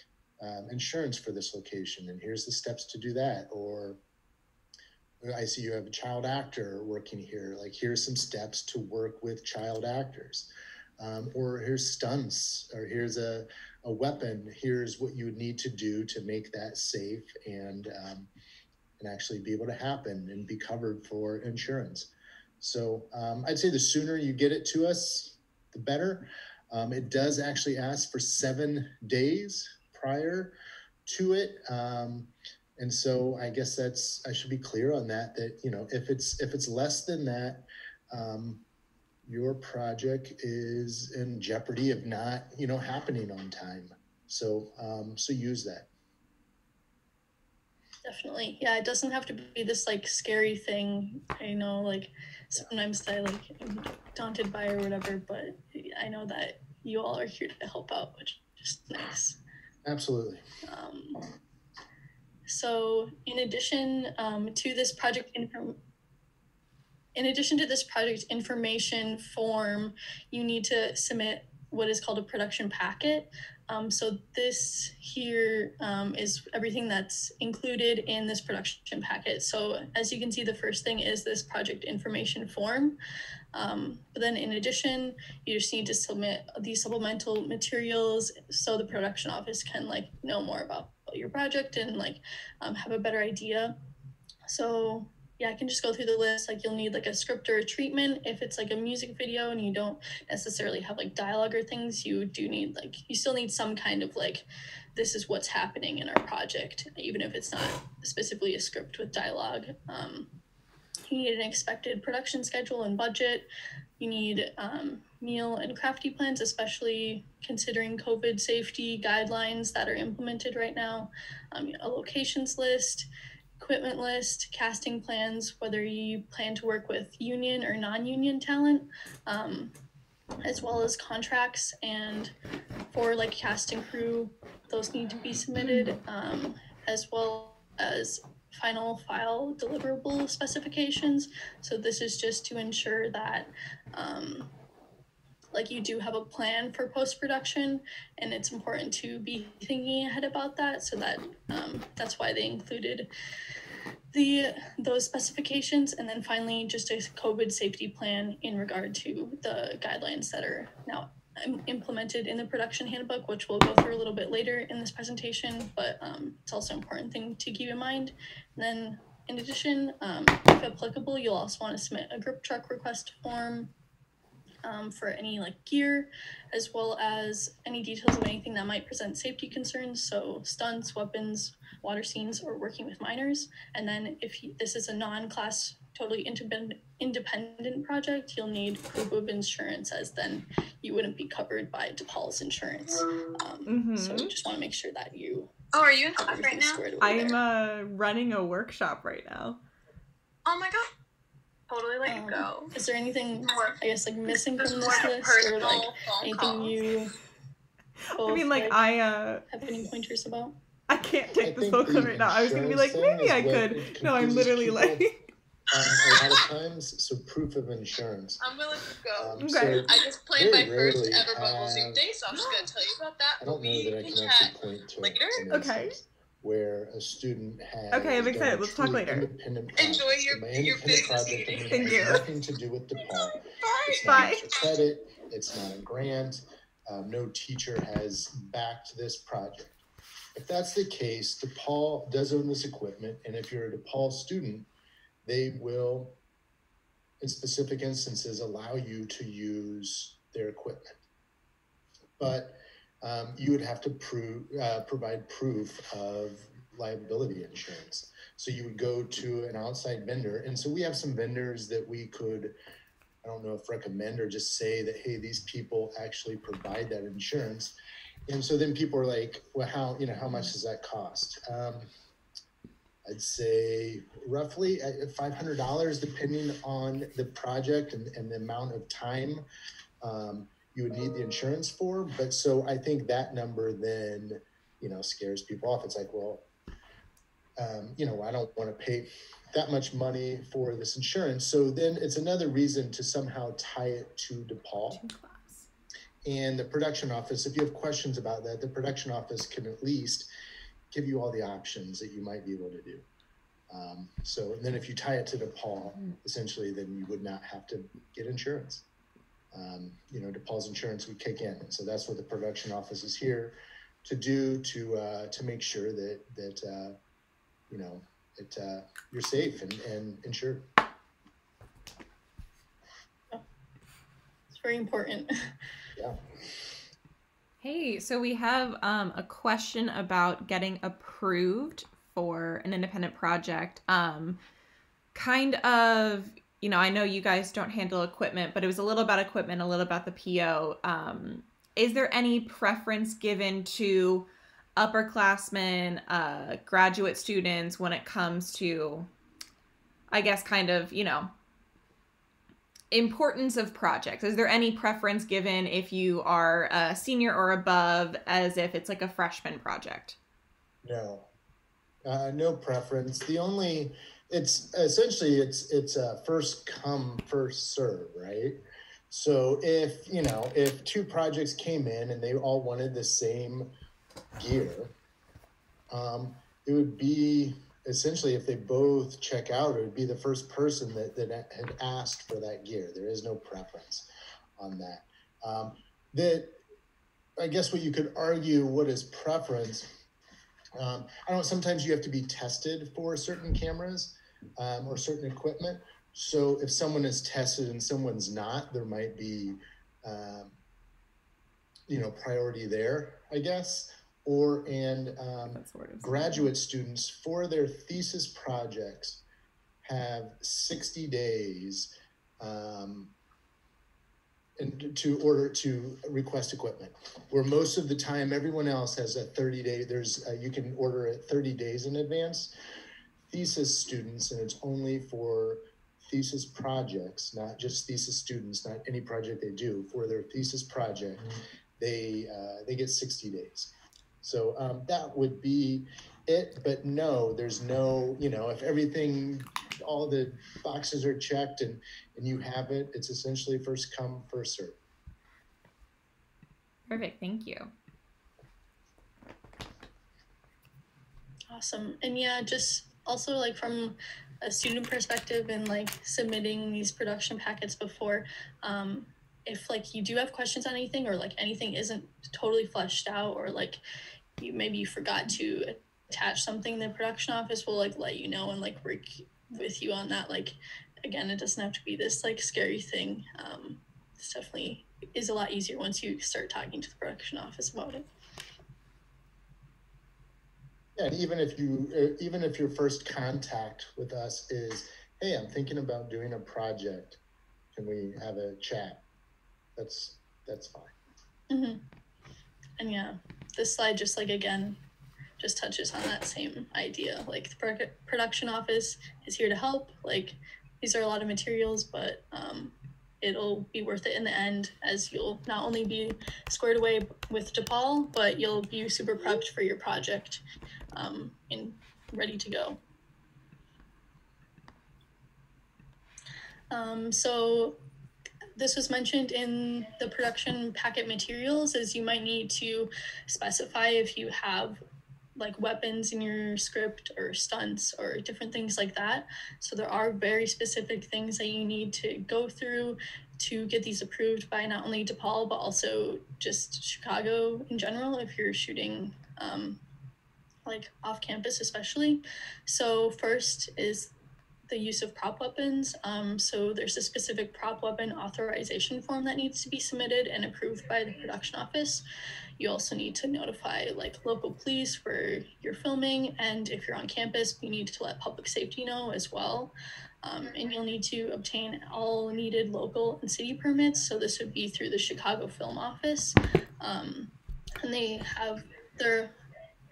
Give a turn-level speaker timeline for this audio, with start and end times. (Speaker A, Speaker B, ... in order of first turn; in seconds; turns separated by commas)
Speaker A: 0.4-4.0, Speaker A: 5.2-18.3, Speaker A: 19.0-30.5, Speaker A: 31.1-38.6, Speaker A: 39.2-45.9, Speaker B: 48.0-59.4, Speaker A: 59.8-60.4, Speaker B: 60.6-61.2, Speaker B: 62.5-65.8, Speaker B: 67.1-83.0, Speaker B: 83.5-93.7, Speaker B: 94.5-110.3, Speaker B: 111.1-123.1, Speaker B: 123.6-129.7, Speaker B: 130.4-132.3, Speaker B: 132.9-144.5, Speaker B: 145.5-153.1, Speaker B: 154.1-173.7, Speaker B: 174.6-195.5, Speaker C: 193.7-194.3, Speaker D: 195.7-196.8, Speaker B: 196.2-197.4, Speaker C: 197.0-199.6, Speaker D: 200.4-200.9, Speaker D: 201.7-202.7, Speaker B: 202.0-207.1, Speaker D: 203.5-203.7, Speaker D: 204.5-206.8, Speaker B: 208.1-208.8, Speaker C: 208.2-209.4, Speaker B: 209.5-210.6, Speaker C: 210.9-215.2, Speaker A: 211.4-215.1, Speaker A: 215.7-218.4, Speaker D: 216.0-216.3, Speaker D: 218.4-225.4, Speaker A: 219.2-222.1, Speaker C: 219.4-219.9, Speaker A: 223.4-239.8, Speaker C: 225.5-225.9, Speaker C: 227.9-229.3, Speaker D: 229.8-232.2, Speaker C: 231.6-232.2, Speaker C: 233.6-234.4, Speaker D: 234.0-234.3, Speaker A: 240.3-244.7, Speaker A: 245.2-246.2, Speaker A: 247.2-251.0, Speaker A: 252.2-262.5, Speaker A: 263.2-267.7, Speaker A: 268.3-271.9, Speaker A: 273.1-279.4, Speaker A: 280.0-286.4, Speaker A: 287.6-295.0, Speaker C: 294.9-295.7, Speaker A: 296.2-300.3, Speaker A: 300.9-303.1, Speaker A: 303.7-308.8, Speaker A: 309.5-316.9, Speaker A: 317.7-320.7, Speaker B: 324.5-325.5, Speaker C: 327.6-334.4, Speaker C: 335.1-349.1, Speaker C: 350.1-351.3, Speaker C: 352.9-360.2, Speaker A: 360.8-361.3, Speaker A: 362.0-373.7, Speaker A: 374.4-374.9, Speaker A: 375.9-384.1, Speaker A: 384.6-386.5, Speaker A: 387.4-389.9, Speaker A: 390.8-400.5, Speaker A: 401.9-409.2, Speaker C: 405.5-406.5, Speaker A: 409.8-413.1, Speaker A: 414.6-422.5, Speaker A: 423.3-433.7, Speaker A: 434.2-444.8, Speaker C: 446.9-447.7, Speaker B: 451.5-463.8, Speaker B: 464.4-478.1, Speaker A: 480.9-487.2, Speaker A: 487.7-489.0, Speaker A: 489.8-490.9, Speaker B: 491.5-491.8, Speaker B: 492.8-494.8, Speaker B: 495.4-510.4, Speaker B: 510.9-512.8, Speaker B: 516.7-517.8, Speaker B: 518.6-524.8, Speaker B: 525.4-539.8, Speaker B: 540.6-544.1, Speaker B: 544.7-552.0, Speaker B: 552.6-559.7, Speaker B: 560.2-569.3